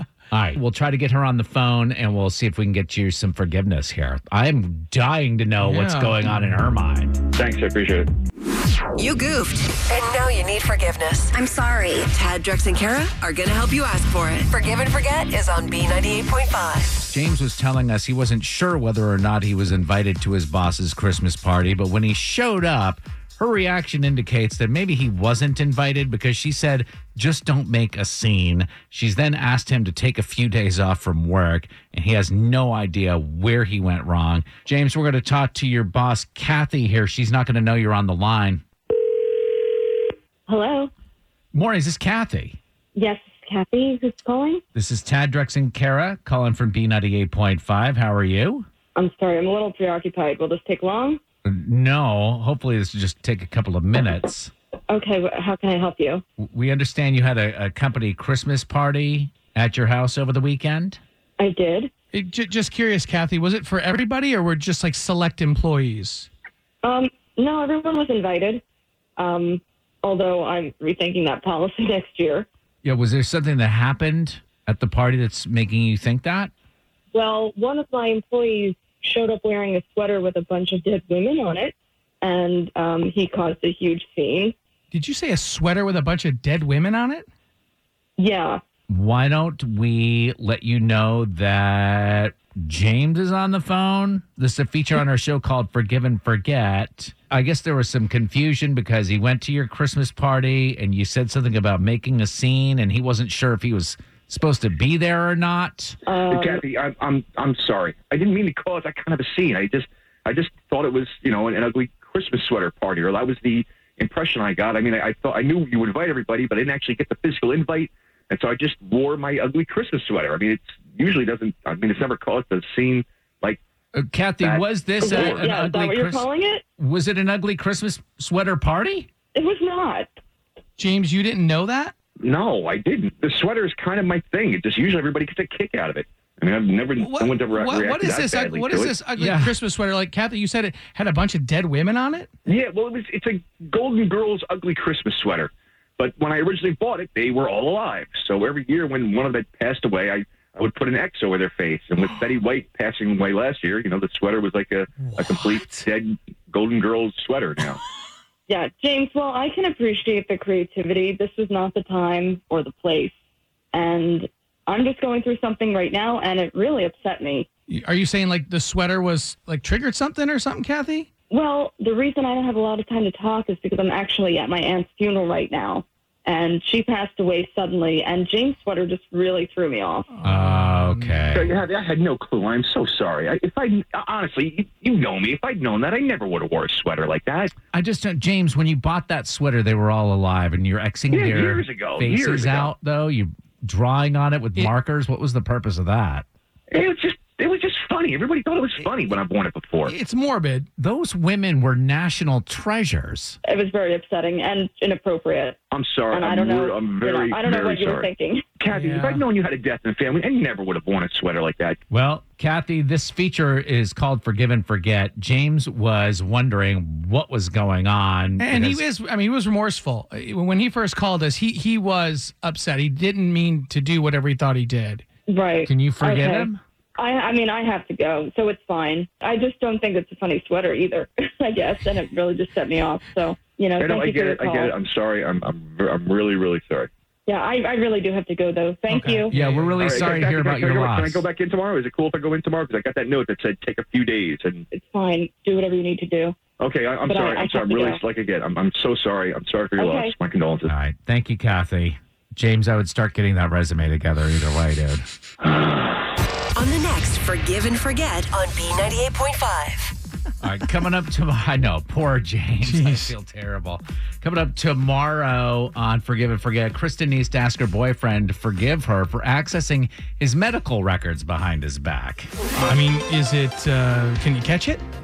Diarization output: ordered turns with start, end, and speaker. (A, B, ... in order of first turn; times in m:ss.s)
0:00.3-0:07.2 A
0:05.6-0:06.2 B
0:07.3-0:08.1 C
0:09.0-0:16.9 D
0:17.0-0:38.6 A
0:40.5-0:40.9 E
0:41.5-0:42.6 A
0:42.9-0:44.6 E
0:44.7-0:48.6 A
0:48.9-0:51.2 E
0:51.5-0:54.5 A
0:54.9-0:56.2 E
0:56.4-1:01.0 A
1:01.4-1:01.9 E
1:02.1-1:06.3 B
1:06.8-1:08.6 E
1:09.2-1:12.5 E
1:12.8-1:16.5 A
1:17.1-1:24.6 E
1:24.9-1:27.2 B
1:28.2-1:28.6 E
1:28.9-1:46.0 A
1:46.0-1:46.6 E
1:46.3-2:03.6 C
2:03.9-2:06.2 A
2:04.4-2:05.4 C
2:05.0-2:06.6 E
2:06.8-2:09.1 A
2:09.3-2:10.1 E
2:10.8-2:11.9 B
2:12.2-2:19.0 C
2:17.0-2:22.3 B
2:19.2-2:19.6 A
2:22.5-2:37.8 C
2:35.0-2:35.8 B
2:38.5-2:43.1 E
2:43.7-2:47.5 E
2:47.7-2:51.1 B
2:51.3-3:00.1 E
3:00.1-3:01.4 B
3:00.2-3:01.5 A
3:01.3-3:07.5 C
3:07.7-3:16.2 A
3:11.1-3:12.7 C
3:16.7-3:19.9 C
3:19.8-3:20.7 B
3:20.8-3:23.4 A
3:23.4-3:25.6 E
3:25.7-3:31.8 C
3:26.1-3:28.4 E
3:28.6-3:29.2 B
3:31.9-3:38.8 A
3:38.4-3:45.0 B
3:45.3-3:54.8 E
3:45.6-3:46.6 A
3:53.8-3:56.9 C
3:57.2-3:59.3 E
3:58.9-3:59.9 B
3:59.3-4:01.2 A
3:59.8-4:04.7 C
4:04.7-4:06.4 E
4:06.6-4:10.7 C
4:07.0-4:08.0 E
4:09.8-4:10.1 E
4:10.7-4:15.0 A
4:16.5-4:19.9 D
4:20.4-4:32.3 A
4:22.6-4:23.1 B
4:32.6-4:34.8 B